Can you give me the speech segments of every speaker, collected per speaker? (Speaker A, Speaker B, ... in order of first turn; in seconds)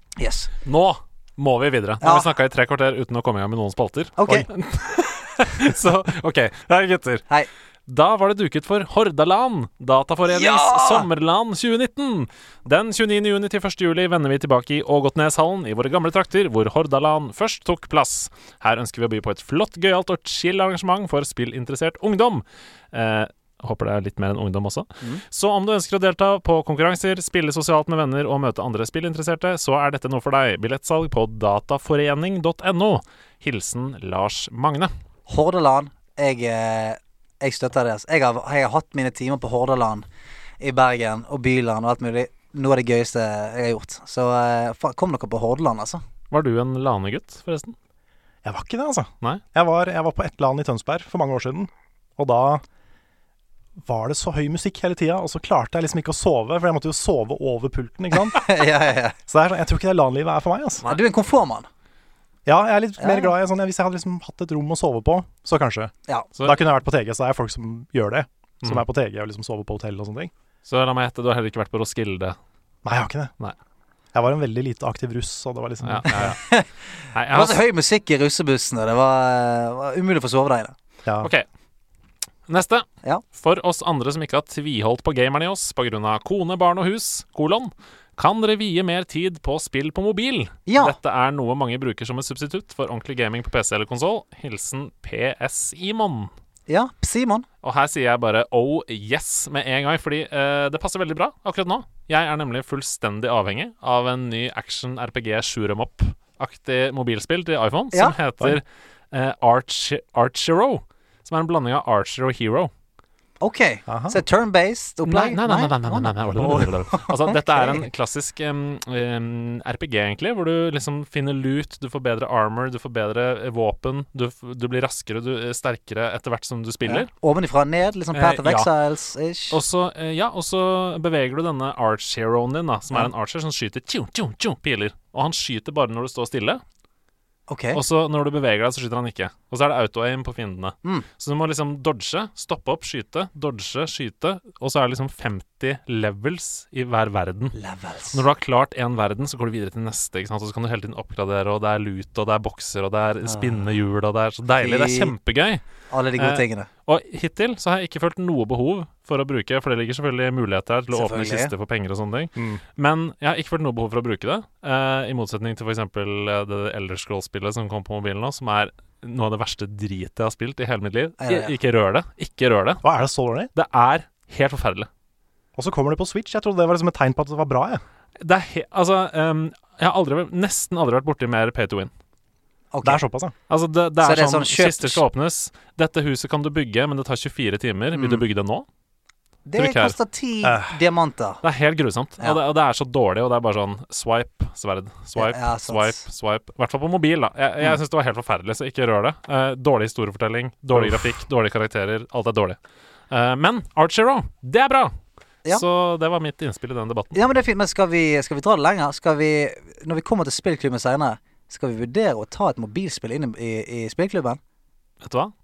Speaker A: 0.2-0.5, 2.0-2.3, 4.2-4.5, 10.3-11.1, 35.3-40.0, 40.6-46.0, 58.3-59.2, 60.9-61.7, 63.0-63.3, 76.2-76.7, 77.3-80.8, 90.7-91.0, 96.7-97.5, 113.4-117.8, 126.9-129.6, 137.5-137.8, 147.6-148.2, 153.2-153.6, 154.6-155.1, 155.9-156.7, 160.9-161.5, 171.2-171.5, 182.7-183.0, 184.0-185.0, 187.9-188.2, 189.5-191.4, 195.2-196.0, 207.2-214.4
Speaker B: 0.7-7.2, 7.9-34.9, 46.3-47.8, 70.7-72.4, 75.8-76.4, 77.1-77.6, 82.5-96.3, 97.6-112.7, 115.0-127.1, 128.1-128.7, 129.5-136.6, 137.7-147.6, 148.1-155.6, 156.2-172.8, 173.6-174.9, 178.2-181.9, 183.5-188.7, 189.6-190.0, 191.4-202.6, 203.1-204.9, 205.5-207.2, 215.0-215.3
Speaker C: 48.4-52.6, 53.9-58.4, 59.3-60.9, 62.5-65.9, 66.4-70.3, 72.8-73.3, 74.1-76.3, 81.0-81.3, 113.9-114.2, 162.4-162.6, 172.8-173.5, 175.6-177.8, 182.8-183.3, 190.4-190.8, 200.8-201.1